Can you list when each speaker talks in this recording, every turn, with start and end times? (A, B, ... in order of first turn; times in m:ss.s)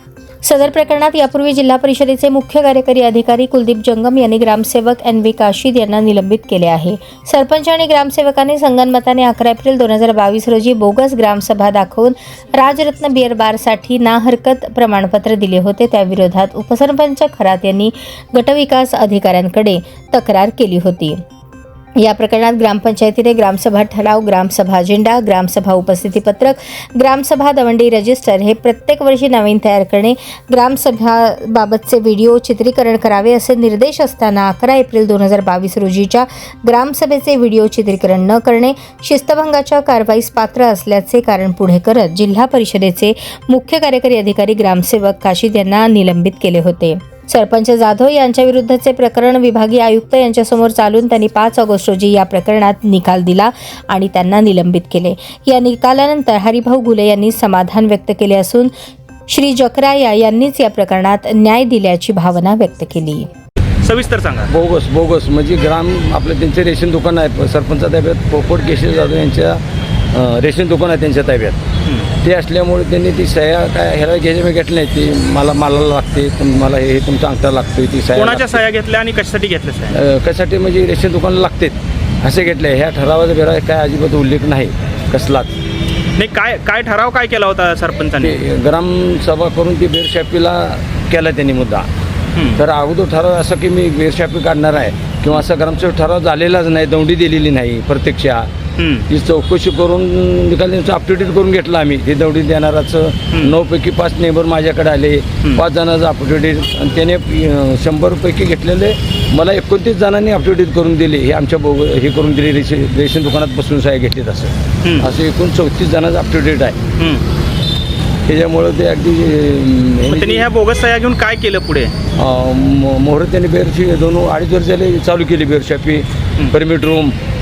0:00.4-0:21.2 A
0:22.0-0:58.7 A
0:59.3-1:03.3 A
1:03.8-1:04.5 B
1:04.5-1:09.6 C
1:10.1-1:11.6 C
1:12.2-1:18.6 C
1:18.2-1:20.0 B
1:19.9-1:25.5 C
1:26.2-1:28.4 B
1:28.2-1:31.9 C
1:32.6-1:38.5 C
1:38.8-1:39.1 B
1:39.1-1:56.8 C
1:54.8-1:55.1 B
1:57.0-1:57.2 B
1:58.3-2:00.5 C
2:00.1-2:01.9 B
2:02.2-2:07.2 C